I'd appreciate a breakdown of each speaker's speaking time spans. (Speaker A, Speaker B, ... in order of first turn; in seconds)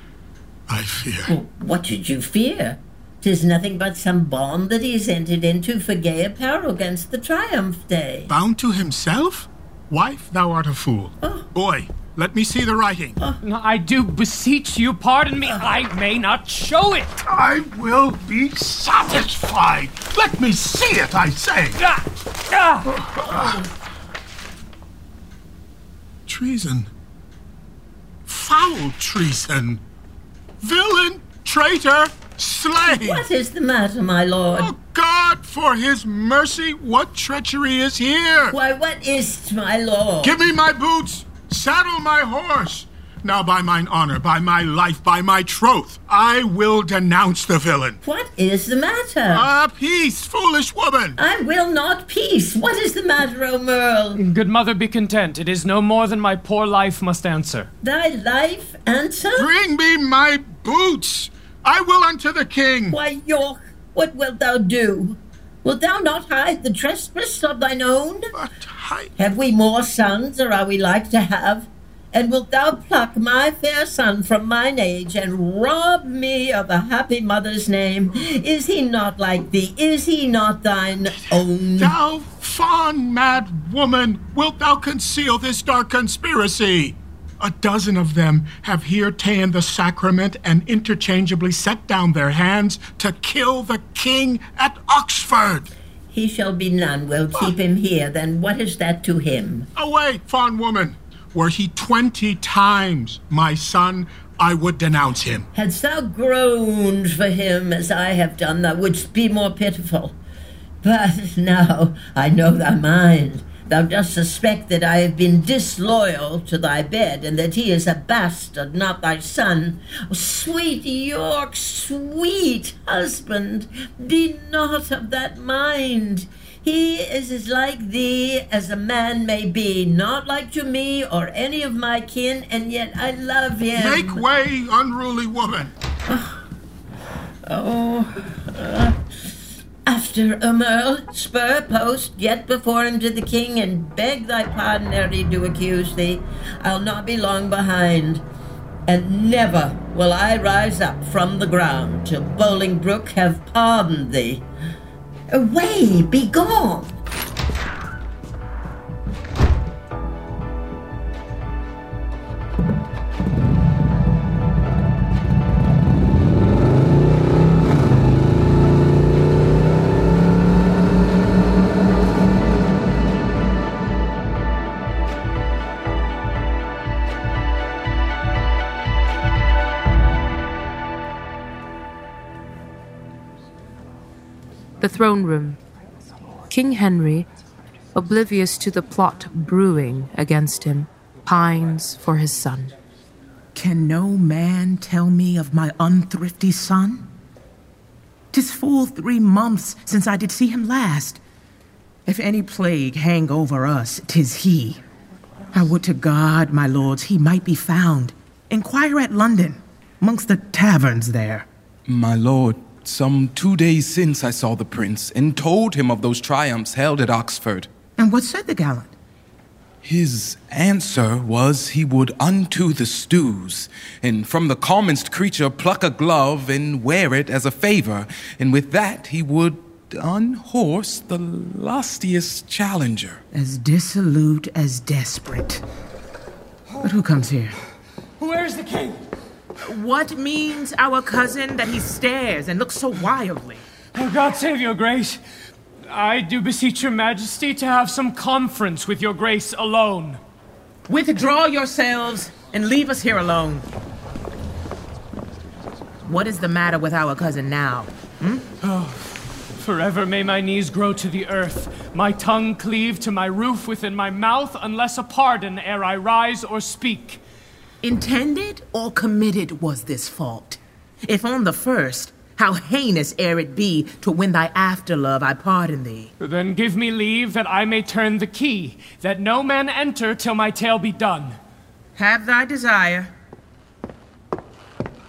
Speaker A: 0.7-1.3, 8.3-13.2, 17.3-21.8, 22.9-23.6, 26.3-26.9, 28.3-29.8, 30.6-33.3, 34.5-38.5, 40.2-48.0, 49.3-51.2, 59.3-63.0, 68.3-69.1, 81.2-95.7, 99.8-105.5, 133.7-135.7
Speaker B: 1.3-8.3, 11.2-11.5, 32.8-34.7, 38.5-40.4, 48.0-49.5, 51.2-54.2, 57.8-59.5, 62.9-68.3, 69.2-81.9, 96.1-99.7, 105.5-110.2, 110.8-134.2, 136.1-136.4, 137.4-139.0, 139.8-148.2, 148.9-154.4, 155.3-156.9
Speaker C: 13.4-17.2, 21.8-22.9, 54.1-57.7, 238.2-239.0, 243.9-245.2, 245.8-250.2, 258.6-259.0, 259.6-267.2, 276.2-281.4
Speaker D: 184.8-185.6, 186.5-187.3, 187.9-192.7
Speaker E: 193.5-197.1, 198.3-201.2, 202.1-204.8, 205.5-211.5, 218.0-218.9, 233.3-235.6, 236.8-237.6, 239.6-243.6, 250.9-253.6, 256.0-258.4, 267.8-276.1, 281.9-283.1
Speaker F: 211.8-217.7, 219.8-233.2